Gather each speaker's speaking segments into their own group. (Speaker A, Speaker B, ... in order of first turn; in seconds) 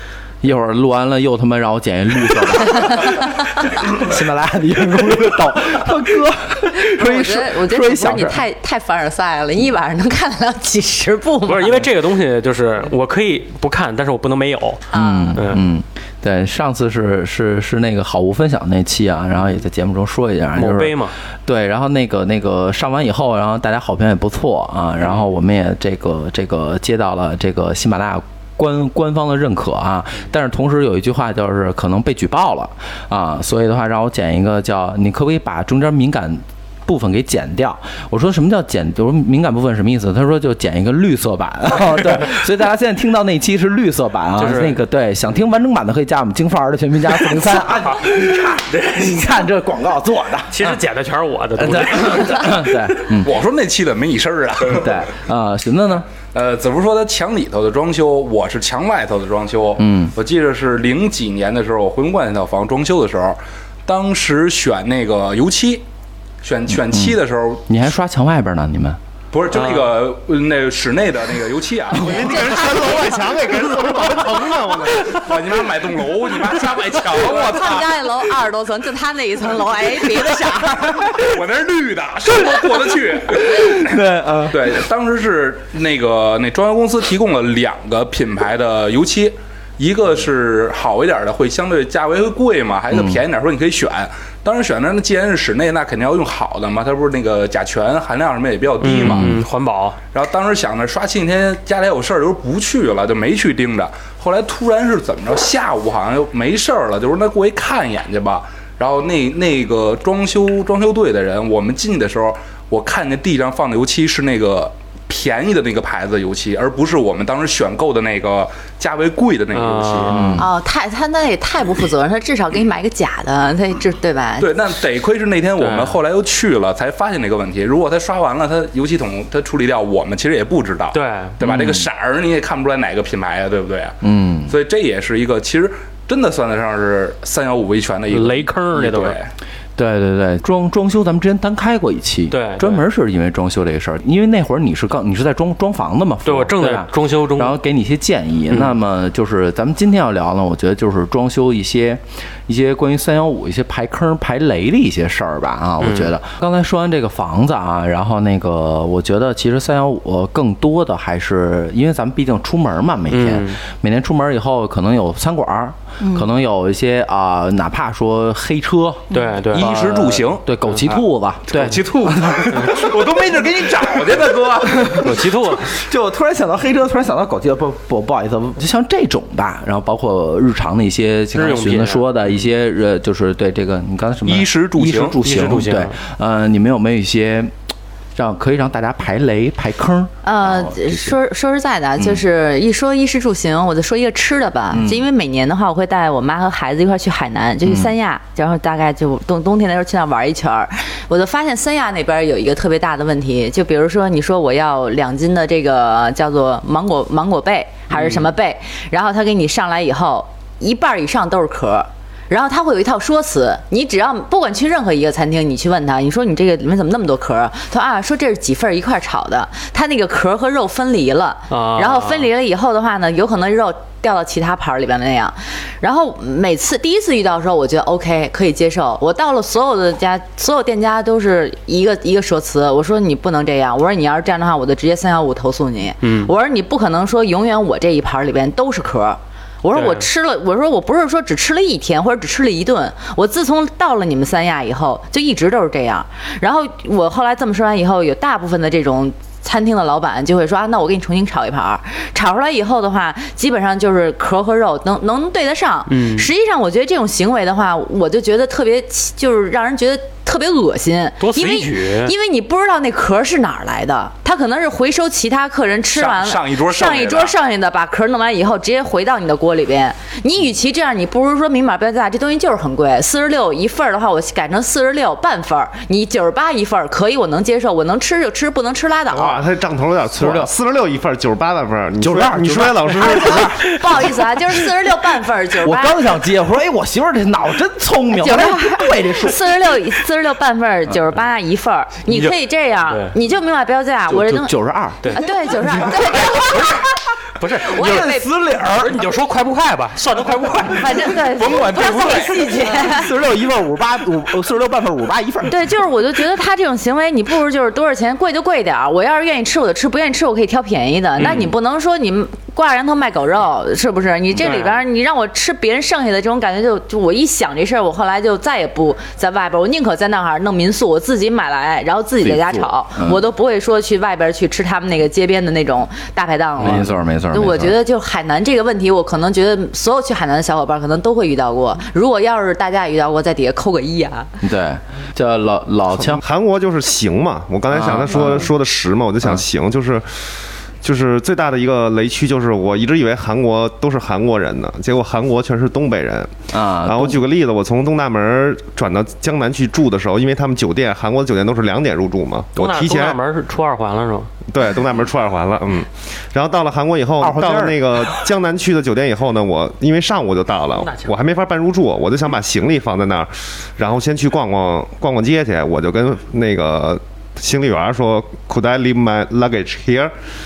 Speaker A: 0.4-8.4, 14.9-50.8, 51.6-53.3, 54.7-56.1, 59.8-60.1, 66.7-69.0, 83.3-84.8, 92.9-93.2, 99.0-99.4, 120.1-120.5, 131.4-131.9, 134.0-134.6, 139.8-173.1, 173.8-187.5, 188.2-191.1, 194.7-195.1, 197.6-197.9, 280.1-280.5, 282.0-284.2, 285.6-289.4, 294.1-296.7, 297.7-299.1, 302.7-305.6, 322.2-323.2, 326.6-327.8, 334.4-336.2, 337.7-338.5, 346.5-347.2, 357.2-358.1
Speaker B: 6.8-11.9, 14.9-15.4, 72.5-73.2, 77.1-80.9, 120.4-124.5, 190.2-279.4, 283.0-286.0, 288.1-294.5, 295.1-296.8, 297.5-298.3, 300.8-303.1, 305.4-334.3
Speaker C: 11.4-15.6, 20.5-21.1, 44.4-44.8, 50.5-52.8, 98.8-100.0, 119.5-120.4, 125.6-126.0, 130.9-131.3, 138.1-139.2, 142.3-142.8, 146.2-147.5, 155.8-156.1, 163.1-163.6, 169.1-169.7, 174.9-175.7, 181.3-182.1, 185.2-185.9, 221.5-222.3, 236.0-236.3, 239.7-240.1, 255.9-256.3, 261.2-262.1, 292.1-292.4, 292.9-293.1, 297.4-298.1, 298.7-301.2, 311.2-311.5, 314.4-314.7, 352.6-354.3, 360.8-361.1
Speaker D: 53.2-55.0, 56.2-65.8, 66.4-67.7, 69.3-72.3, 75.1-77.9, 81.2-99.4, 100.1-120.4, 124.4-139.3, 169.5-175.1, 184.2-185.2, 265.9-267.4, 301.2-302.5
Speaker E: 71.9-75.2, 279.1-283.5, 336.0-340.1, 340.8-353.2, 354.5-370.1